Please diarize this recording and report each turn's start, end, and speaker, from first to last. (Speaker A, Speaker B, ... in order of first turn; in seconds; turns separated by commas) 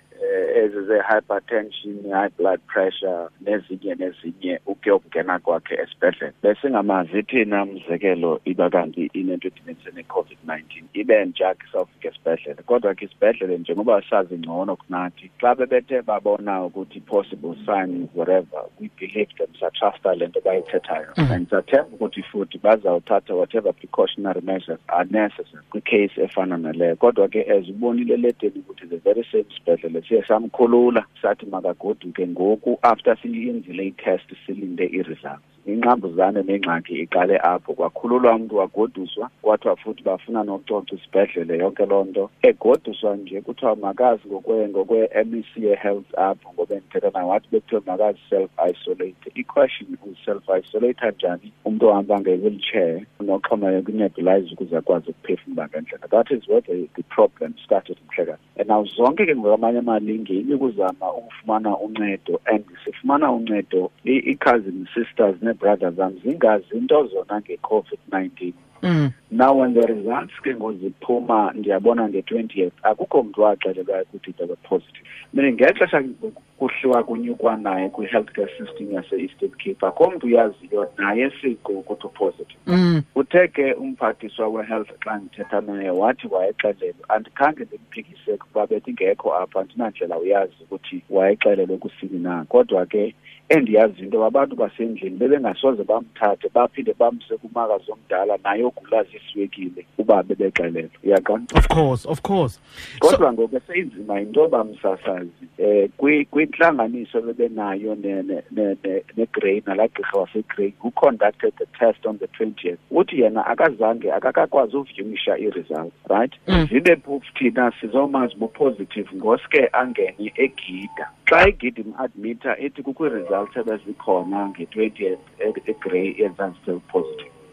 Speaker A: 0.1-68.6, Speaker B: 68.8-69.1, Speaker A: 69.3-82.6, Speaker B: 82.7-83.0, Speaker A: 83.1-101.5, Speaker B: 101.5-103.2, Speaker A: 103.0-127.3